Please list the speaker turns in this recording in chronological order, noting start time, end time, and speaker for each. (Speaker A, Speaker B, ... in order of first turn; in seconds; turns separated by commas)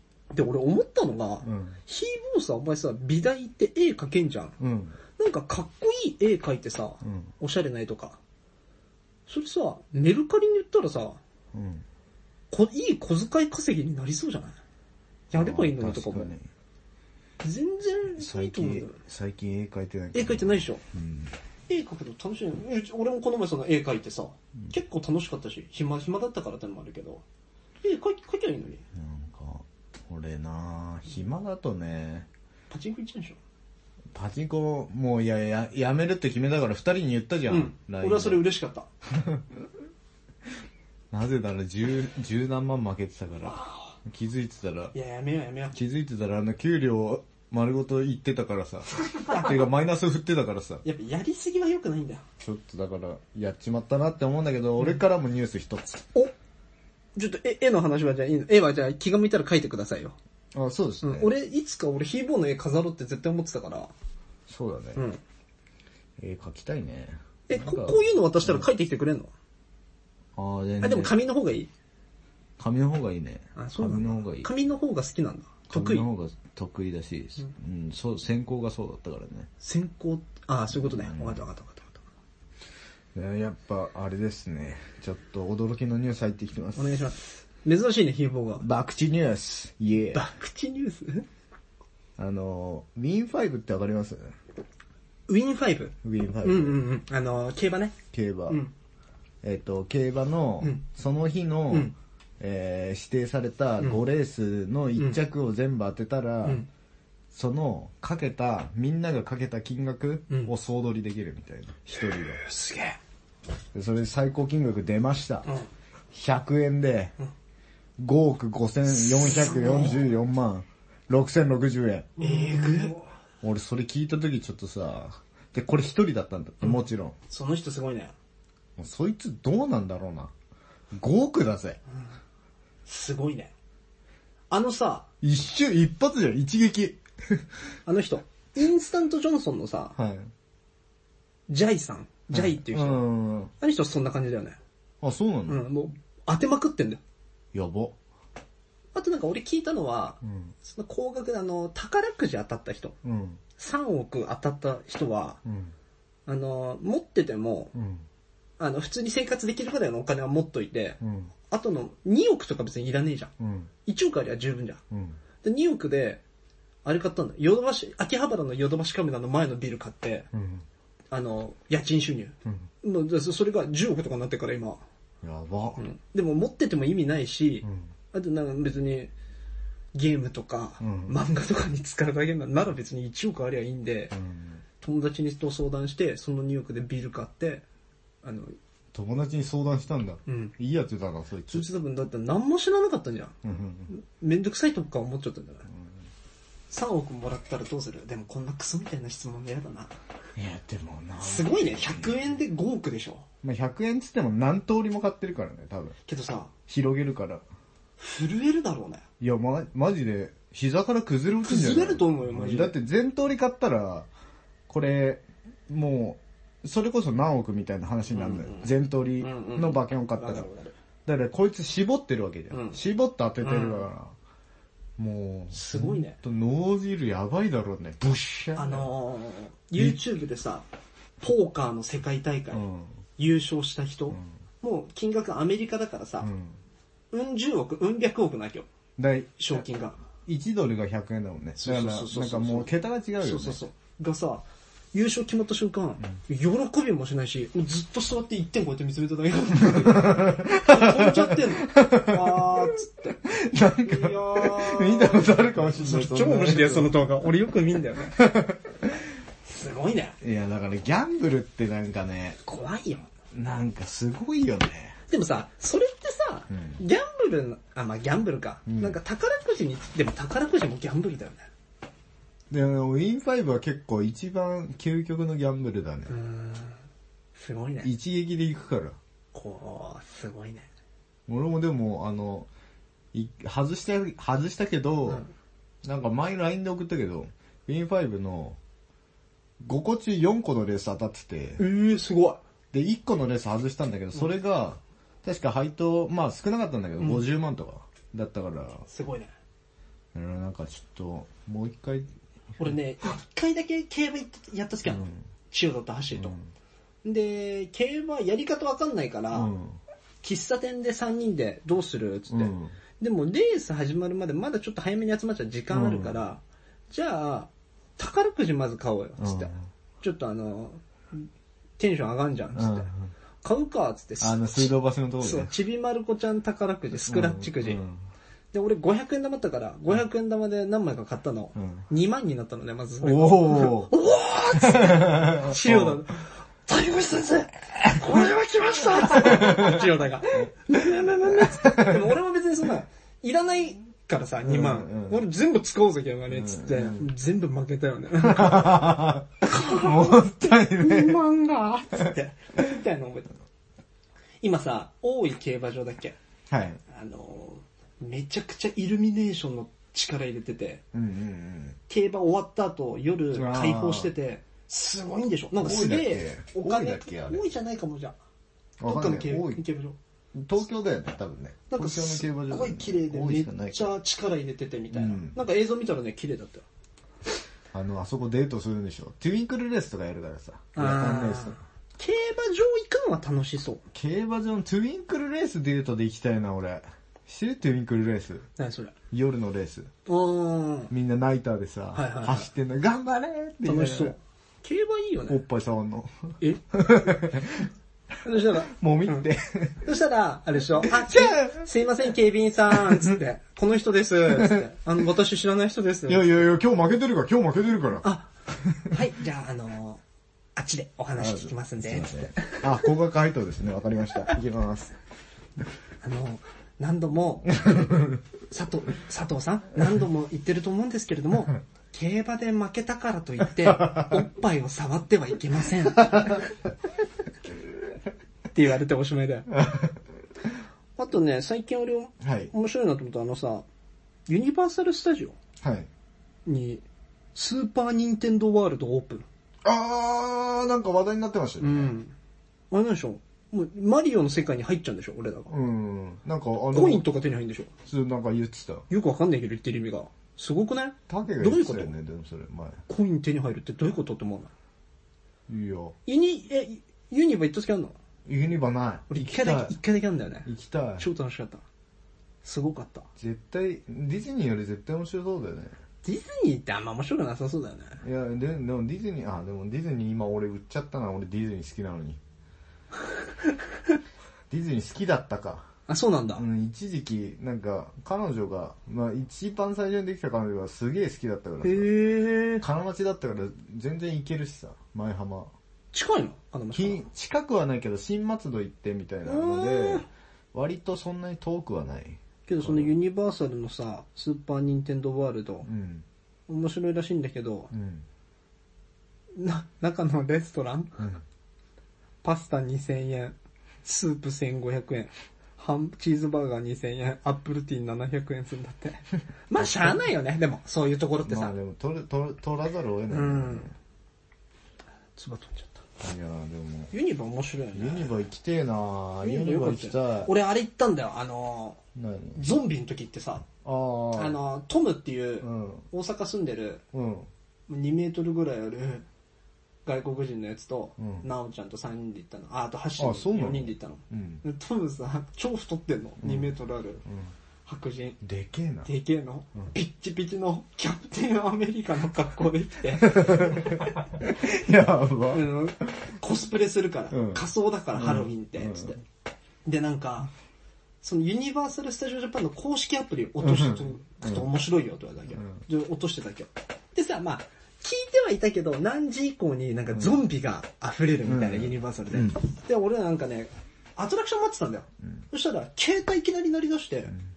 Speaker A: 0.3-4.6, Speaker B: 1.4-1.8, Speaker B: 4.6-5.0, Speaker A: 5.2-8.2, Speaker B: 7.0-7.3, Speaker A: 9.3-11.2, Speaker B: 11.5-11.8, Speaker A: 12.5-14.6, Speaker A: 15.3-16.3, Speaker B: 15.3-16.5, Speaker A: 17.4-19.0, Speaker B: 18.2-21.3, Speaker A: 20.1-20.8, Speaker A: 21.7-27.2, Speaker A: 27.8-28.8, Speaker B: 28.9-32.3, Speaker A: 32.7-33.4, Speaker B: 34.1-38.5, Speaker A: 37.5-38.9, Speaker B: 39.1-39.4, Speaker B: 41.1-44.9, Speaker A: 43.5-43.9, Speaker A: 44.9-45.8, Speaker B: 45.7-50.8, Speaker A: 49.2-49.6, Speaker A: 50.8-52.2, Speaker B: 52.4-56.0, Speaker A: 57.1-60.1, Speaker B: 60.5-61.3, Speaker A: 61.0-63.9, Speaker B: 64.5-65.0, Speaker B: 66.2-68.7, Speaker A: 67.5-69.3, Speaker B: 70.3-71.1, Speaker A: 70.8-71.7, Speaker B: 72.6-74.5, Speaker A: 73.5-76.1, Speaker B: 75.7-79.5, Speaker A: 79.6-82.0, Speaker B: 80.8-81.4, Speaker B: 83.1-86.9, Speaker A: 86.8-88.6, Speaker B: 88.6-90.2, Speaker A: 90.1-91.2, Speaker B: 92.2-94.3, Speaker A: 95.3-98.0, Speaker B: 96.0-96.8, Speaker B: 98.1-98.6, Speaker B: 99.4-106.6, Speaker B: 107.3-112.4, Speaker A: 112.1-113.0, Speaker B: 113.7-115.5, Speaker B: 116.1-117.1, Speaker B: 118.0-122.8, Speaker A: 119.0-120.0, Speaker A: 122.2-123.0, Speaker B: 123.4-127.1, Speaker A: 126.6-128.1, Speaker B: 128.8-130.3, Speaker B: 130.9-131.8, Speaker A: 132.8-133.5, Speaker A: 134.5-135.1, Speaker B: 135.2-137.4, Speaker A: 137.8-139.9, Speaker B: 139.9-140.3, Speaker A: 141.5-143.1, Speaker B: 142.3-143.5, Speaker A: 143.6-144.6, Speaker B: 145.0-145.6, Speaker A: 145.5-147.0, Speaker B: 147.5-147.9, Speaker A: 148.9-152.9, Speaker B: 153.0-153.4, Speaker A: 153.6-155.4, Speaker B: 155.4-155.7, Speaker A: 156.3-157.7, Speaker B: 157.7-158.0, Speaker A: 158.6-163.3, Speaker B: 161.0-161.3, Speaker B: 163.4-163.7, Speaker A: 163.8-164.8, Speaker B: 164.9-165.2, Speaker A: 165.4-166.2, Speaker A: 166.8-170.3, Speaker B: 170.3-170.6, Speaker A: 171.1-174.8, Speaker B: 175.2-175.8, Speaker A: 175.8-179.1, Speaker A: 179.9-184.2, Speaker B: 180.8-181.2, Speaker B: 184.1-184.6, Speaker A: 184.8-187.6, Speaker A: 188.2-188.6, Speaker B: 188.9-191.7, Speaker A: 190.2-190.5, Speaker A: 191.5-193.3, Speaker B: 193.4-193.9, Speaker A: 193.9-195.7, Speaker A: 196.7-199.9, Speaker B: 200.3-202.2, Speaker A: 201.2-203.2, Speaker B: 203.4-205.9, Speaker A: 206.1-206.5, Speaker B: 206.7-207.4, Speaker A: 208.0-209.0, Speaker B: 209.2-214.1, Speaker A: 211.4-212.7, Speaker B: 214.7-220.4, Speaker A: 218.1-220.7, Speaker B: 221.1-224.1, Speaker A: 222.5-222.8, Speaker A: 223.4-223.8, Speaker B: 225.0-228.9, Speaker A: 225.5-226.2, Speaker A: 228.6-230.7, Speaker A: 231.2-232.7, Speaker B: 232.5-232.9, Speaker A: 233.2-236.3, Speaker B: 236.2-236.6, Speaker A: 237.1-238.7, Speaker B: 239.0-239.6, Speaker A: 239.4-240.0, Speaker B: 240.2-243.6, Speaker A: 241.6-253.2, Speaker B: 249.6-252.7, Speaker B: 253.2-256.9, Speaker A: 253.8-258.2, Speaker B: 258.2-258.9, Speaker A: 259.4-260.2, Speaker B: 260.2-262.4, Speaker A: 262.4-263.1, Speaker B: 263.3-265.0, Speaker A: 265.1-271.5, Speaker B: 266.5-266.8, Speaker B: 268.7-269.0, Speaker B: 272.5-276.1, Speaker A: 276.1-276.8, Speaker A: 277.4-277.9, Speaker B: 277.8-279.0, Speaker A: 279.3-280.7, Speaker B: 281.3-282.5, Speaker B: 283.1-285.2, Speaker B: 285.8-288.6, Speaker B: 289.6-291.6, Speaker A: 291.6-292.4, Speaker B: 292.7-298.9, Speaker A: 298.9-299.3, Speaker B: 300.1-302.1, Speaker A: 302.6-306.4, Speaker B: 304.9-305.2, Speaker B: 306.1-306.5, Speaker A: 307.0-309.5, Speaker B: 309.3-309.8, Speaker A: 310.2-321.3, Speaker B: 312.3-312.7, Speaker B: 315.7-316.2, Speaker B: 319.2-319.6, Speaker A: 321.8-322.9, Speaker B: 322.6-323.1, Speaker A: 323.4-327.8, Speaker B: 324.2-325.5, Speaker B: 327.1-328.0, Speaker A: 328.5-353.3, Speaker B: 331.6-331.9, Speaker B: 333.0-333.9, Speaker B: 334.6-336.0, Speaker B: 339.1-339.9, Speaker B: 340.4-342.1, Speaker B: 344.4-345.2, Speaker B: 346.3-347.1, Speaker B: 348.2-351.2, Speaker A: 354.4-356.1, Speaker B: 356.5-356.8, Speaker A: 356.9-360.8, Speaker B: 360.9-361.8, Speaker A: 361.9-368.1, Speaker B: 363.3-364.1, Speaker B: 365.6-367.4, Speaker B: 368.8-369.6, Speaker A: 368.9-369.9, Speaker B: 370.3-373.9, Speaker A: 371.7-376.6, Speaker B: 374.9-375.4, Speaker B: 377.7-381.6, Speaker A: 380.7-383.8, Speaker B: 383.9-388.5, Speaker A: 388.6-388.9, Speaker B: 389.1-389.9, Speaker A: 390.1-390.9, Speaker B: 390.9-394.1, Speaker A: 391.9-392.5, Speaker A: 393.6-395.4, Speaker B: 395.3-397.7, Speaker A: 398.2-399.2, Speaker B: 398.7-399.8, Speaker A: 399.8-406.4, Speaker B: 400.8-401.6, Speaker B: 404.3-404.6, Speaker B: 406.1-408.1, Speaker A: 408.0-408.3, Speaker A: 408.8-410.0, Speaker A: 410.6-412.7, Speaker B: 411.2-414.9, Speaker A: 416.0-418.0, Speaker B: 417.6-418.2, Speaker A: 418.5-426.4, Speaker B: 423.6-424.2, Speaker A: 428.5-429.5, Speaker B: 429.5-430.0, Speaker A: 431.0-433.6, Speaker B: 432.2-432.5, Speaker A: 434.3-435.4, Speaker B: 435.6-435.9, Speaker A: 436.4-436.8, Speaker A: 437.3-439.2, Speaker B: 439.6-441.9, Speaker A: 441.6-442.1, Speaker A: 442.7-445.5, Speaker B: 445.5-447.1, Speaker A: 446.7-447.7, Speaker B: 447.9-448.9, Speaker A: 448.9-451.9, Speaker B: 451.1-452.8, Speaker A: 452.9-454.5, Speaker B: 455.5-455.9, Speaker A: 456.1-457.9, Speaker B: 458.2-459.7, Speaker A: 459.1-460.5, Speaker B: 460.4-461.1, Speaker A: 461.0-461.6, Speaker A: 462.4-463.1, Speaker B: 463.2-465.7, Speaker A: 466.0-468.0, Speaker B: 468.0-472.2, Speaker B: 474.5-475.7, Speaker A: 475.9-476.4, Speaker B: 476.4-481.9, Speaker A: 481.6-482.6, Speaker B: 482.6-485.5, Speaker A: 485.9-487.0, Speaker B: 486.7-492.9, Speaker A: 489.2-490.0, Speaker A: 492.5-495.7, Speaker B: 495.6-496.0, Speaker A: 496.5-497.7, Speaker B: 497.7-498.0, Speaker A: 499.3-501.0, Speaker A: 502.2-511.5, Speaker B: 509.6-510.0, Speaker B: 511.2-513.7, Speaker A: 513.1-513.7, Speaker A: 515.2-515.8, Speaker B: 516.0-516.9, Speaker A: 516.9-518.2, Speaker B: 517.7-520.3, Speaker A: 519.2-521.8, Speaker B: 522.0-522.4, Speaker A: 522.3-523.5, Speaker B: 523.6-524.4, Speaker A: 524.1-526.8, Speaker B: 525.4-525.9, Speaker B: 526.9-527.3, Speaker A: 527.7-529.0, Speaker A: 529.8-537.0, Speaker B: 531.0-531.2, Speaker B: 533.0-534.4, Speaker B: 536.2-536.5, Speaker B: 537.0-537.3, Speaker A: 537.6-538.2, Speaker B: 538.2-538.9, Speaker A: 538.8-543.9, Speaker B: 543.0-545.5, Speaker A: 545.3-549.0, Speaker B: 547.1-547.4, Speaker B: 547.9-548.9, Speaker A: 549.6-550.3, Speaker A: 551.0-567.1, Speaker B: 553.4-554.5, Speaker B: 561.2-562.4